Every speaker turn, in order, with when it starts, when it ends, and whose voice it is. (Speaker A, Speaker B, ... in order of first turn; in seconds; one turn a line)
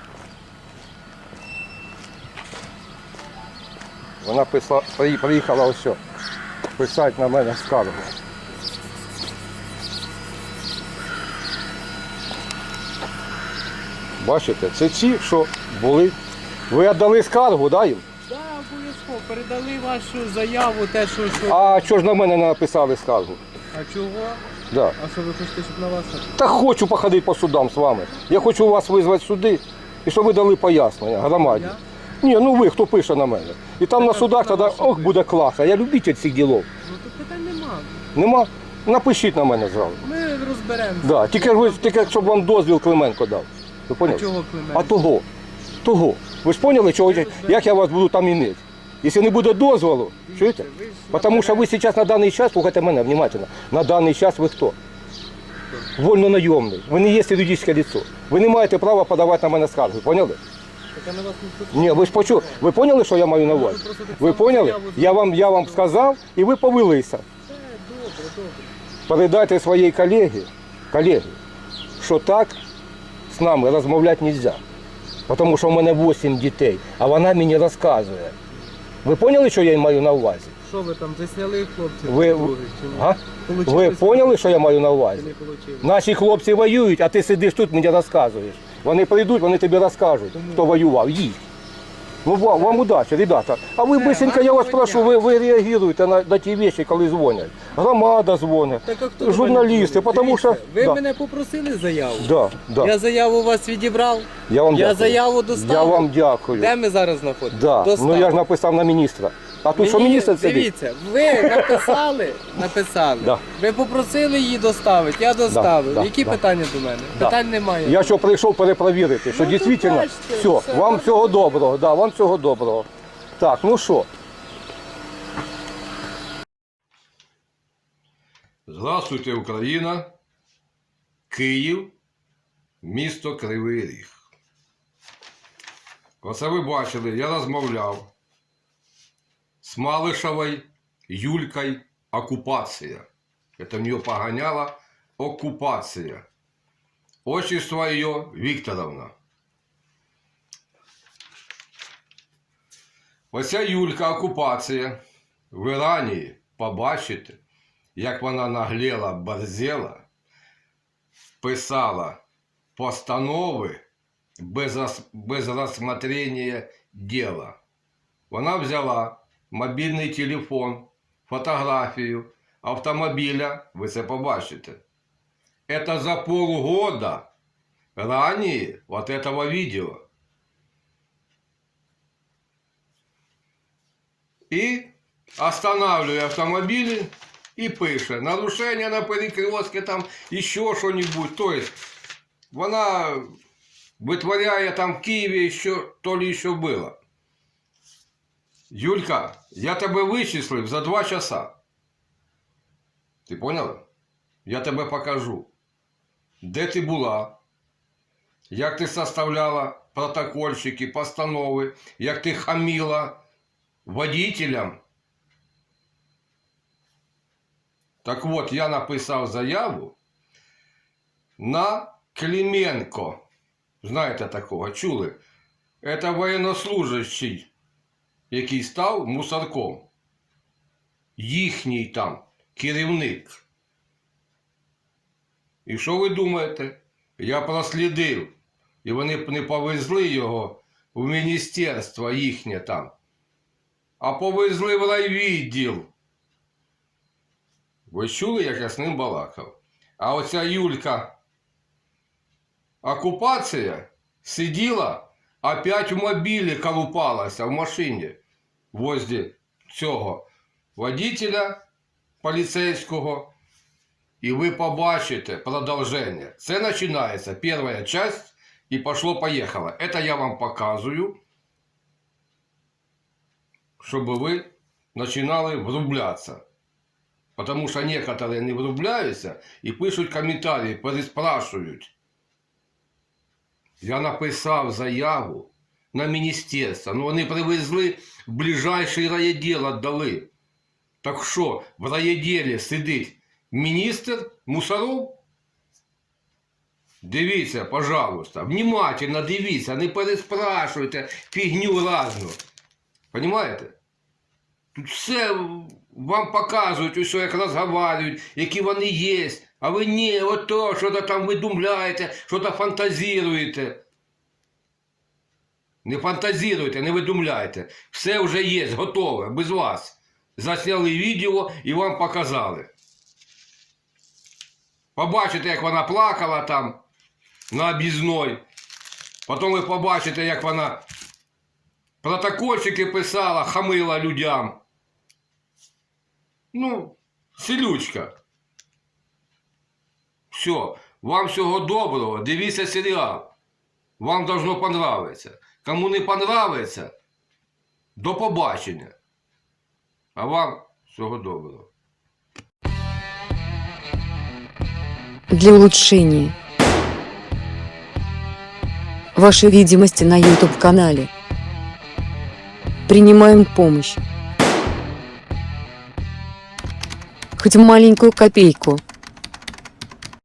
Speaker A: 4.2-6.0
Speaker A: 6.8-8.1
Speaker A: 14.2-16.2
Speaker A: 16.7-18.0
Speaker B: 18.3-21.9
Speaker A: 21.5-23.4
Speaker B: 23.7-24.4
Speaker A: 24.7-25.0
Speaker B: 25.0-26.5
Speaker A: 26.4-36.7
Speaker B: 28.2-28.6
Speaker B: 31.3-31.8
Speaker B: 34.0-35.2
Speaker B: 36.8-38.0
Speaker A: 38.1-40.0
Speaker B: 40.0-42.4
Speaker A: 41.0-45.2
Speaker B: 44.0-45.1
Speaker A: 45.8-54.8
Speaker B: 46.6-47.8
Speaker B: 50.1-51.7
Speaker A: 56.0-60.4
Speaker B: 60.9-62.6
Speaker A: 61.7-67.2
Speaker B: 63.4-66.1
Speaker B: 67.5-68.7
Speaker A: 69.1-71.3
Speaker A: 72.0-72.6
Speaker A: 73.3-74.6
Speaker A: 75.3-78.3
Speaker A: 79.0-80.5
Speaker B: 80.6-85.9
Speaker A: 82.1-91.4
Speaker B: 90.3-90.8
Speaker A: 92.2-101.0
Speaker B: 92.4-92.9
Speaker B: 93.8-95.2
Speaker B: 98.8-108.4
Speaker A: 102.2-102.9
Speaker A: 104.5-106.7
Speaker A: 107.5-110.7
Speaker B: 109.7-118.3
Speaker A: 111.4-111.9
Speaker A: 115.5-116.4
Speaker A: 117.2-124.1
Speaker B: 119.3-121.6
Speaker A: 128.7-130.1
Speaker A: 131.3-131.9
Speaker A: 132.8-134.2
Speaker A: 136.2-138.1
Speaker A: 139.6-143.1
Speaker A: 143.6-146.2
Speaker A: 147.2-149.1
Speaker A: 153.3-155.0
Speaker A: 155.5-157.4
Speaker A: 158.0-160.0
Speaker A: 161.4-162.2
Speaker A: 162.8-163.8
Speaker A: 164.4-167.6
Speaker A: 168.3-174.8
Speaker A: 175.7-177.3
Speaker A: 178.0-180.0
Speaker A: 184.5-191.8
Speaker A: 192.5-193.3
Speaker A: 194.0-197.0
Speaker A: 198.7-201.6
Speaker A: 203.3-203.8
Speaker A: 204.4-205.5
Speaker A: 206.4-207.4
Speaker A: 208.5-213.2
Speaker A: 213.9-214.8
Speaker A: 218.0-219.9
Speaker A: 221.4-223.2
Speaker A: 223.8-225.2
Speaker A: 225.8-227.5
Speaker A: 228.3-229.9
Speaker A: 231.2-233.4
Speaker A: 235.7-238.3
Speaker A: 238.8-242.9
Speaker A: 244.0-245.9
Speaker A: 247.9-251.1
Speaker A: 252.8-258.2
Speaker A: 258.7-260.2
Speaker A: 260.8-261.6
Speaker A: 262.2-263.3
Speaker A: 264.2-271.2
Speaker A: 273.8-276.4
Speaker A: 277.4-281.9
Speaker A: 283.8-290.3
Speaker A: 291.0-295.2
Speaker A: 297.0-302.4
Speaker A: 303.1-303.8
Speaker A: 304.8-313.8
Speaker A: 315.9-322.7
Speaker A: 325.0-326.8
Speaker A: 327.5-328.4
Speaker A: 329.3-330.8
Speaker A: 332.0-334.6
Speaker A: 336.5-338.1
Speaker A: 340.3-343.3
Speaker A: 344.0-346.9
Speaker A: 348.0-348.9
Speaker A: 350.2-351.7
Speaker C: 355.3-356.4
Speaker C: 359.1-361.1
Speaker C: 362.9-364.0
Speaker C: 367.4-368.8